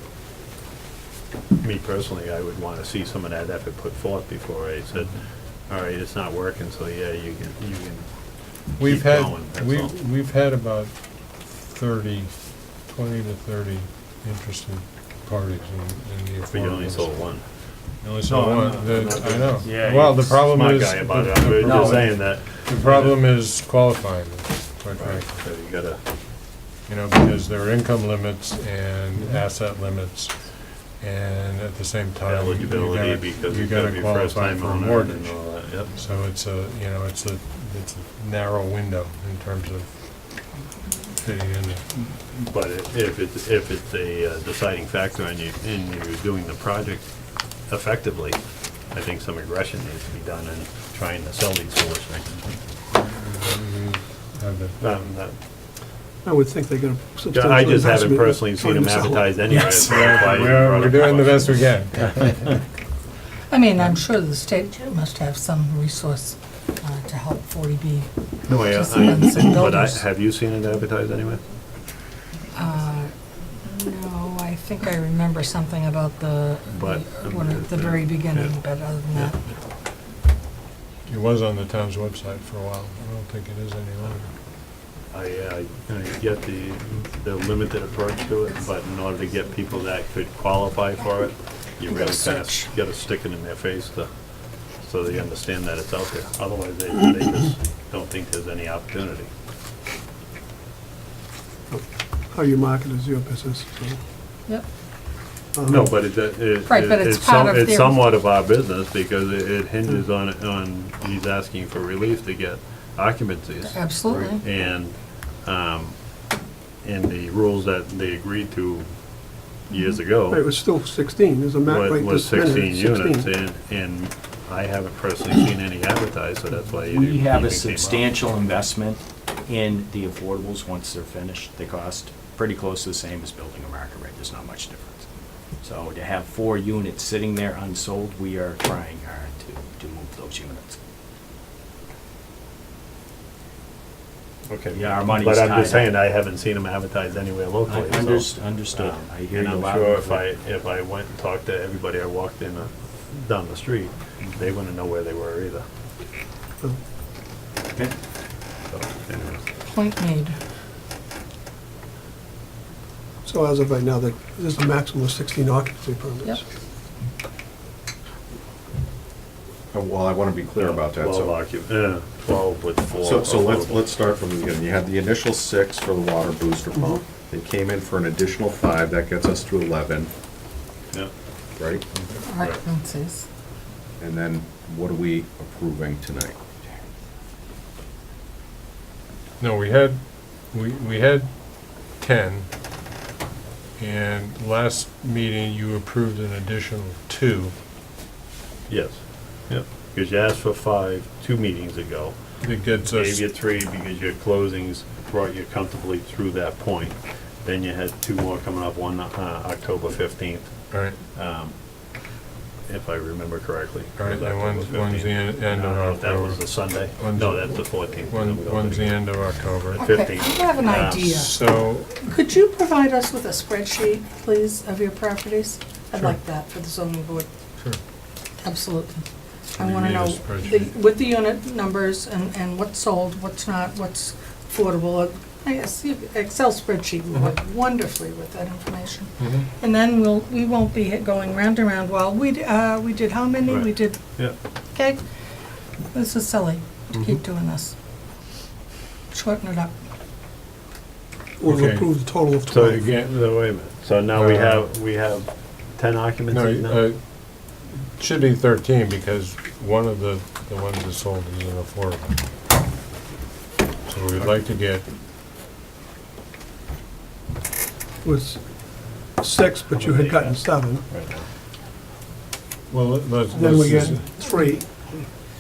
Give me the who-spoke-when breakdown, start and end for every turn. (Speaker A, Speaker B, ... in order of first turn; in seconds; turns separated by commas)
Speaker A: 1.6-9.9, Speaker B: 8.8-17.3, Speaker A: 16.5-17.6, Speaker B: 17.9-25.4, Speaker A: 18.2-23.2, Speaker C: 21.6-22.0, Speaker A: 24.9-26.0, Speaker B: 26.9-40.5, Speaker A: 32.2-35.9, Speaker B: 41.2-41.9, Speaker A: 42.2-47.1, Speaker A: 47.6-52.5, Speaker B: 52.9-54.8, Speaker A: 54.8-55.4, Speaker D: 56.2-59.6, Speaker A: 57.3-61.8, Speaker B: 59.5-62.6, Speaker E: 63.5-70.0, Speaker A: 68.5-71.4, Speaker E: 72.5-79.5, Speaker A: 76.7-78.6, Speaker B: 81.1-84.3, Speaker A: 85.1-99.3, Speaker E: 91.9-92.7, Speaker D: 101.7-104.0, Speaker D: 105.5-105.9, Speaker A: 105.7-116.2, Speaker E: 106.7-108.0, Speaker E: 113.7-114.4, Speaker A: 116.8-120.4, Speaker E: 119.7-120.0, Speaker D: 120.3-123.3, Speaker A: 121.7-128.1, Speaker C: 126.9-135.1, Speaker C: 135.6-140.8, Speaker A: 144.5-155.7, Speaker C: 144.7-145.9, Speaker C: 147.7-150.2, Speaker A: 158.7-159.5, Speaker E: 159.7-160.3, Speaker D: 163.2-166.4, Speaker F: 169.7-171.3, Speaker A: 170.6-173.9, Speaker F: 173.0-180.1, Speaker F: 181.6-181.9, Speaker E: 182.2-183.3, Speaker F: 184.0-186.4, Speaker B: 189.4-192.5, Speaker B: 193.8-197.6, Speaker A: 198.7-211.6, Speaker B: 202.4-203.3, Speaker B: 210.7-211.0, Speaker A: 212.7-221.2, Speaker B: 214.0-219.9, Speaker E: 219.8-221.4, Speaker B: 221.1-222.1, Speaker E: 221.9-227.3, Speaker E: 228.4-244.2, Speaker B: 229.6-230.7, Speaker B: 239.2-239.5, Speaker A: 243.5-244.4, Speaker E: 244.7-245.0, Speaker E: 245.9-247.7, Speaker E: 249.1-249.7, Speaker D: 251.4-252.8, Speaker B: 251.4-252.0, Speaker A: 252.5-256.8, Speaker B: 252.6-253.1, Speaker B: 254.1-254.7, Speaker B: 256.3-262.2, Speaker B: 263.9-264.9, Speaker D: 268.0-270.9, Speaker A: 269.8-271.3, Speaker B: 272.7-274.1, Speaker D: 273.3-275.2